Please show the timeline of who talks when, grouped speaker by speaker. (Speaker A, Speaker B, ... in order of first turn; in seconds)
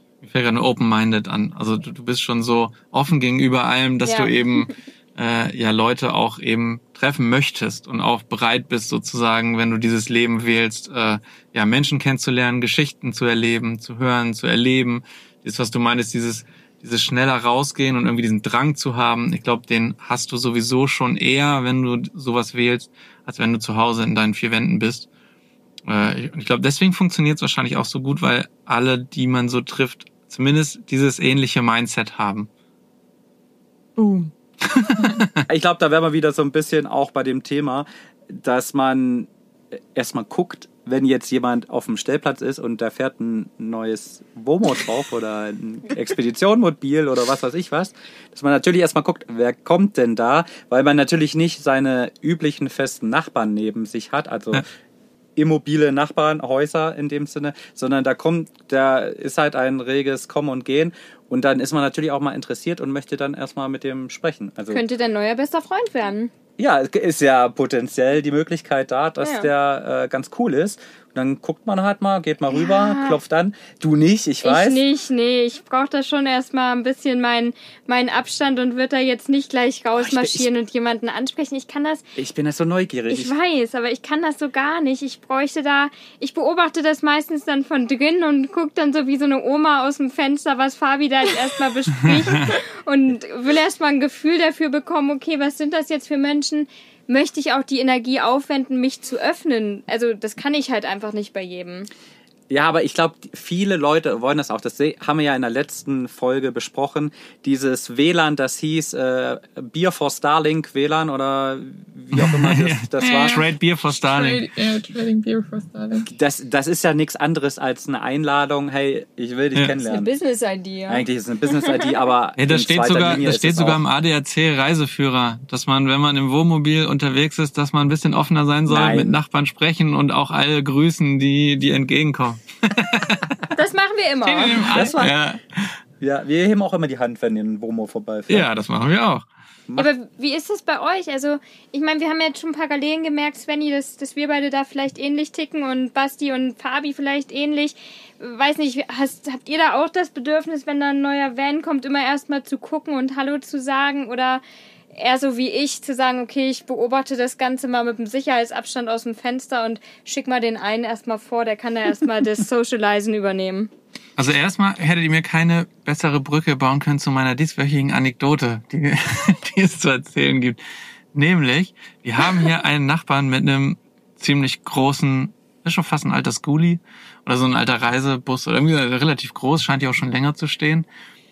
Speaker A: 0.2-25.1, 25.9-32.5, 34.6-35.4, 112.1-114.5, 122.4-133.4, 134.3-135.7, 138.3-139.2, 164.2-170.6, 171.1-180.8
Speaker B: 4.0-4.7, 64.7-66.3, 69.2-69.5, 72.5-73.2, 74.4-82.1, 83.1-101.9, 119.8-121.7, 133.5-134.8, 139.8-154.4, 154.9-163.7
Speaker C: 34.0-34.3, 35.0-35.2, 113.0-116.1
Speaker D: 35.5-39.3, 40.0-54.7, 55.4-64.8, 66.6-74.8, 79.9-80.5, 82.2-83.3, 102.5-113.4, 116.1-120.1, 120.9-123.8, 128.7-129.2, 134.6-135.2, 136.0-138.5